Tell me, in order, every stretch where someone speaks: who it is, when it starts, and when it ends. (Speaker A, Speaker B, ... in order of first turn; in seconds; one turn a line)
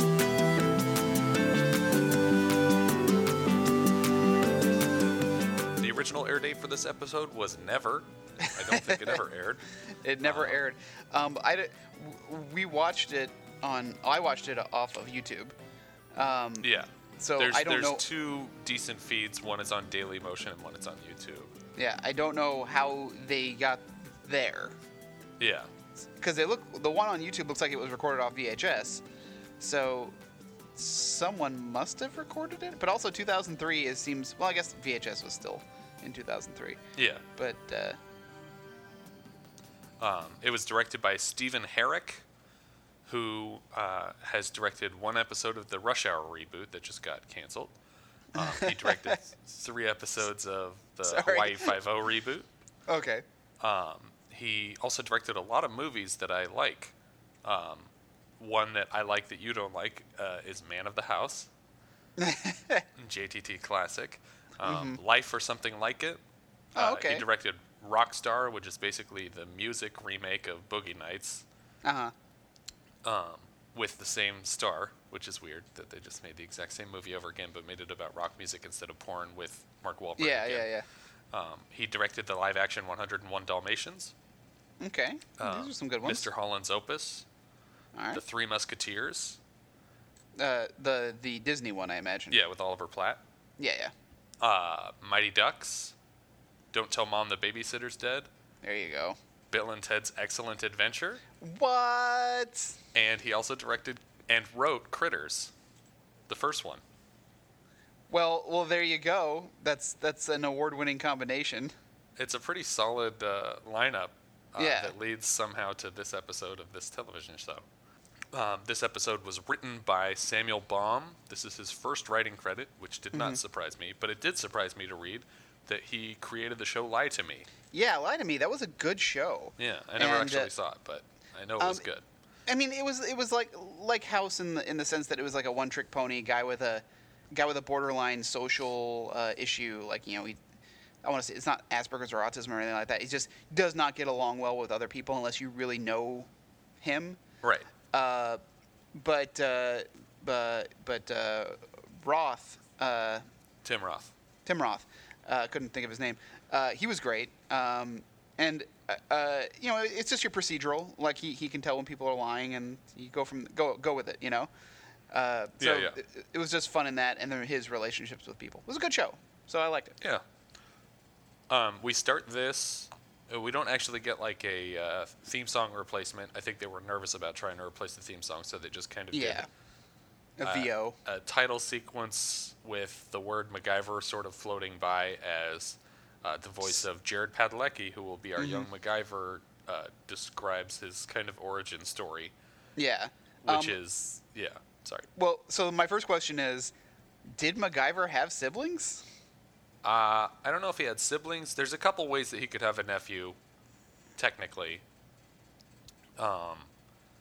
Speaker A: 5.8-9.6
Speaker B: 8.4-9.2
Speaker B: 10.0-15.5
Speaker A: 10.2-10.6
Speaker B: 16.1-18.0
Speaker A: 16.6-21.5
Speaker B: 21.8-24.8
Speaker A: 25.4-25.7
Speaker B: 26.2-29.0
Speaker B: 29.6-30.1
Speaker B: 30.8-36.8
Speaker A: 37.0-37.2
Speaker B: 37.4-38.0
Speaker A: 40.0-42.2
Speaker A: 43.0-47.7
Speaker B: 48.3-49.2
Speaker A: 48.3-52.5
Speaker B: 51.0-51.7
Speaker B: 52.9-53.2
Speaker A: 53.6-61.5
Speaker B: 62.2-62.9
Speaker A: 63.0-66.2
Speaker B: 64.6-65.0
Speaker B: 66.7-67.2
Speaker A: 66.8-71.4
Speaker B: 71.8-72.1
Speaker A: 73.0-80.7
Speaker B: 80.2-80.8
Speaker A: 81.3-84.1
Speaker B: 84.8-86.2
Speaker A: 85.4-87.2
Speaker B: 87.9-88.2
Speaker A: 88.1-89.4
Speaker B: 90.4-92.4
Speaker A: 92.3-93.2
Speaker B: 93.6-93.9
Speaker A: 94.4-95.9
Speaker A: 96.7-98.3
Speaker B: 98.6-99.2
Speaker A: 99.5-101.2
Speaker B: 101.4-102.8
Speaker A: 102.9-105.5
Speaker A: 106.3-106.8
Speaker B: 108.1-111.7
Speaker A: 112.2-117.7
Speaker B: 114.6-114.9
Speaker A: 118.3-127.5
Speaker B: 123.1-123.4
Speaker B: 127.7-130.5
Speaker A: 129.6-132.0
Speaker B: 131.6-131.8
Speaker B: 132.5-140.4
Speaker B: 141.0-146.3
Speaker B: 146.8-147.2
Speaker A: 147.4-147.7
Speaker B: 147.9-148.4
Speaker B: 148.9-153.2
Speaker A: 153.6-154.1
Speaker B: 154.4-164.5
Speaker B: 165.1-170.0
Speaker A: 165.6-166.0
Speaker A: 171.5-179.5
Speaker B: 179.1-179.5
Speaker B: 180.4-181.0
Speaker A: 180.4-192.3
Speaker B: 188.4-188.7
Speaker B: 192.8-193.8
Speaker A: 193.4-195.1
Speaker B: 195.2-196.7
Speaker B: 197.3-199.0
Speaker A: 199.8-203.4
Speaker A: 204.2-204.8
Speaker A: 206.2-206.7